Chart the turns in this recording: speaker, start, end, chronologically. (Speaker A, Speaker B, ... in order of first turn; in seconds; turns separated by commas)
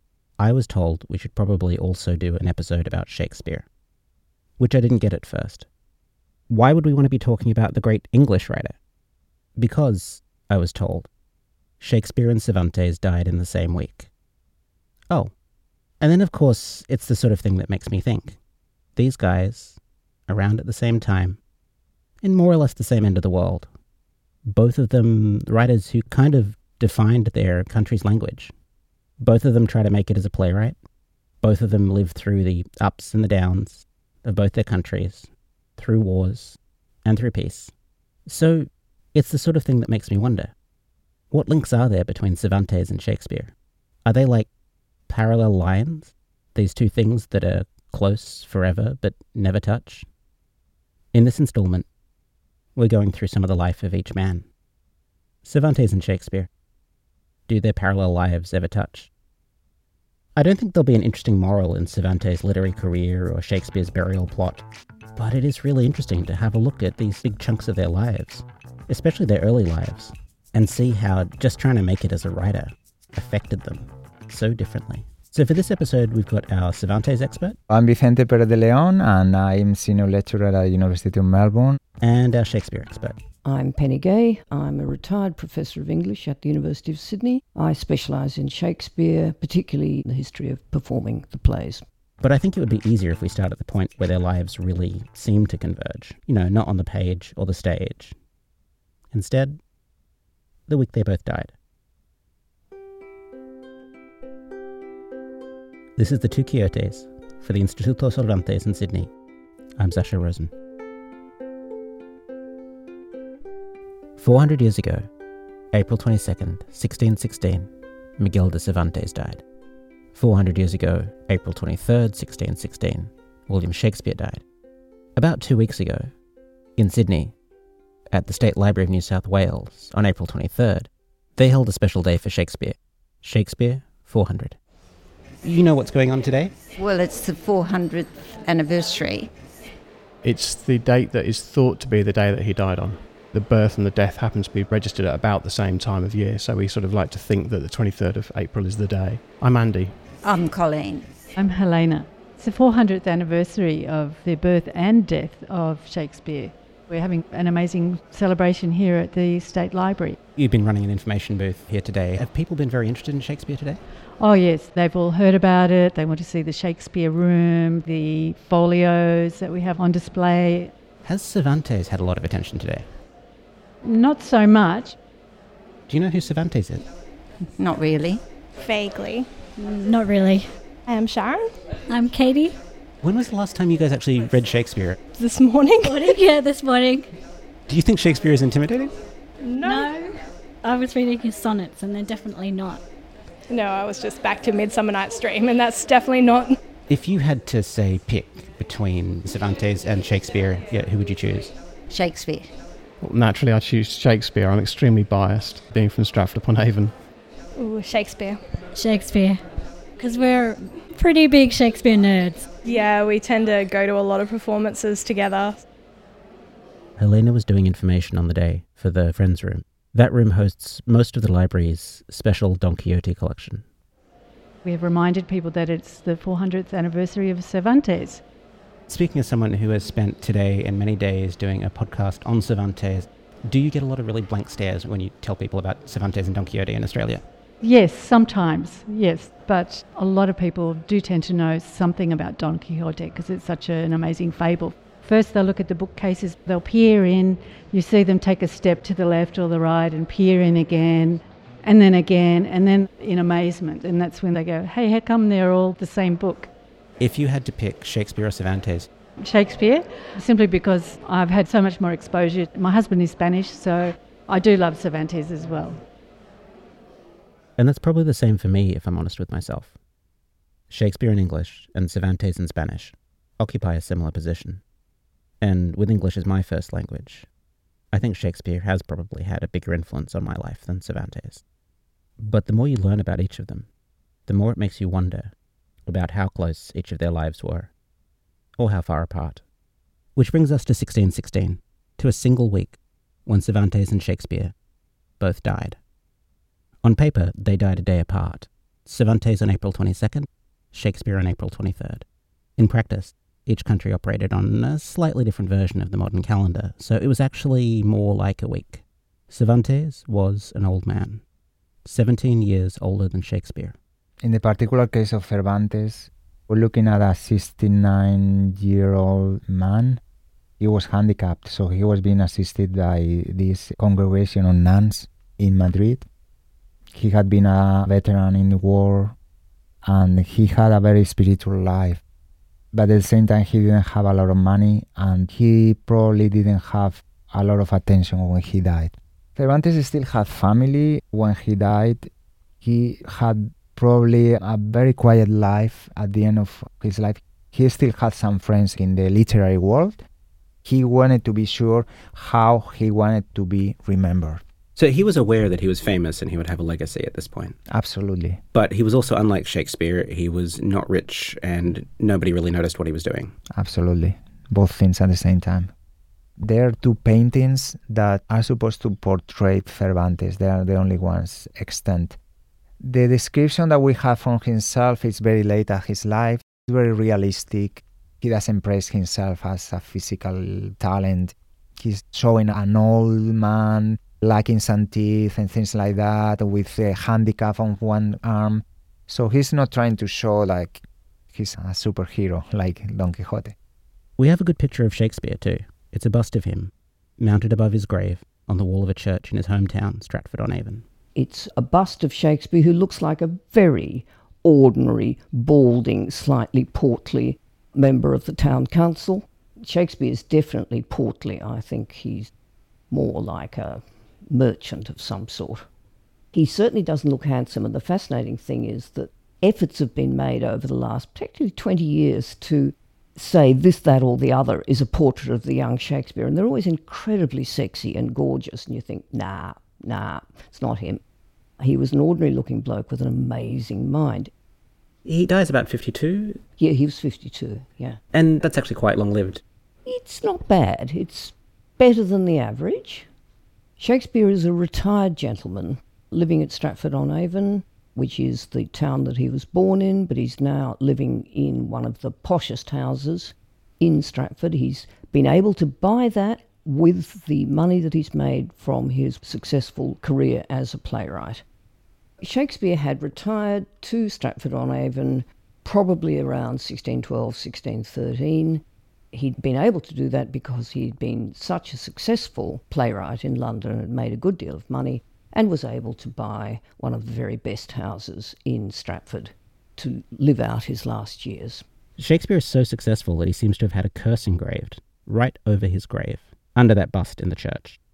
Speaker A: 0.4-3.7, Speaker A: 4.6-5.7, Speaker A: 6.5-8.8, Speaker A: 9.6-11.1, Speaker A: 11.8-14.1, Speaker A: 16.0-18.4, Speaker A: 18.9-21.4, Speaker A: 22.2-23.7, Speaker A: 24.4-28.5, Speaker A: 29.2-30.8, Speaker A: 31.4-37.7, Speaker A: 38.2-40.5, Speaker A: 41.3-44.5, Speaker A: 45.1-50.1, Speaker A: 51.1-51.9, Speaker A: 52.7-54.5, Speaker A: 55.4-56.5, Speaker A: 57.5-59.1, Speaker A: 60.3-64.6, Speaker A: 65.2-77.6, Speaker B: 77.7-81.8, Speaker A: 82.0-83.2, Speaker C: 83.4-91.8, Speaker A: 92.2-98.1, Speaker A: 99.1-99.6, Speaker A: 100.7-101.5, Speaker A: 106.0-109.1, Speaker A: 109.8-110.5, Speaker A: 114.2-115.1, Speaker A: 115.7-119.4, Speaker A: 120.1-124.4, Speaker A: 125.2-126.1, Speaker A: 126.8-127.3, Speaker A: 128.1-134.6, Speaker A: 135.4-136.5, Speaker D: 136.8-139.3, Speaker E: 140.2-150.0, Speaker D: 150.2-151.1, Speaker F: 151.3-160.2, Speaker A: 160.3-163.8, Speaker F: 164.2-170.7, Speaker A: 171.0-172.9, Speaker F: 173.8-175.0, Speaker A: 175.9-176.9, Speaker D: 177.5-178.2, Speaker G: 178.5-179.3, Speaker H: 179.6-180.5, Speaker G: 180.8-181.6, Speaker H: 181.9-182.6, Speaker A: 183.0-185.0, Speaker G: 185.1-186.2, Speaker H: 185.8-187.1, Speaker A: 187.7-188.9, Speaker G: 189.4-190.0, Speaker H: 189.6-192.8, Speaker G: 193.5-196.6, Speaker A: 196.9-201.5, Speaker D: 201.9-202.5, Speaker E: 203.0-207.0, Speaker G: 207.6-208.4, Speaker H: 208.7-212.5, Speaker G: 212.6-215.6, Speaker A: 217.0-223.7, Speaker F: 224.6-228.2, Speaker A: 228.9-237.2, Speaker F: 237.6-256.5, Speaker A: 257.0-258.9, Speaker F: 259.2-265.8, Speaker A: 267.6-269.8, Speaker A: 270.7-274.6, Speaker A: 275.4-277.3, Speaker A: 277.9-281.4, Speaker A: 282.2-283.7, Speaker A: 284.3-285.3, Speaker A: 285.9-287.7, Speaker A: 288.6-289.4, Speaker A: 290.1-294.5, Speaker A: 295.2-295.8, Speaker A: 296.8-302.0, Speaker A: 302.6-311.2, Speaker A: 311.8-313.8, Speaker B: 314.2-320.0, Speaker B: 320.6-326.1, Speaker B: 326.9-329.1, Speaker B: 329.8-332.0, Speaker B: 332.7-342.1, Speaker B: 342.6-350.0, Speaker B: 350.6-354.4, Speaker A: 354.8-357.6, Speaker B: 357.7-358.4, Speaker A: 358.5-363.3, Speaker B: 363.5-365.7, Speaker B: 366.4-372.2, Speaker B: 372.8-393.5, Speaker A: 394.2-400.9, Speaker C: 401.1-412.3, Speaker C: 412.9-415.6, Speaker C: 416.3-431.0, Speaker C: 431.6-434.3, Speaker A: 435.0-436.4, Speaker C: 436.6-438.0, Speaker A: 438.1-439.4, Speaker C: 439.9-443.1, Speaker C: 443.8-461.4, Speaker C: 462.2-481.6, Speaker A: 482.0-487.8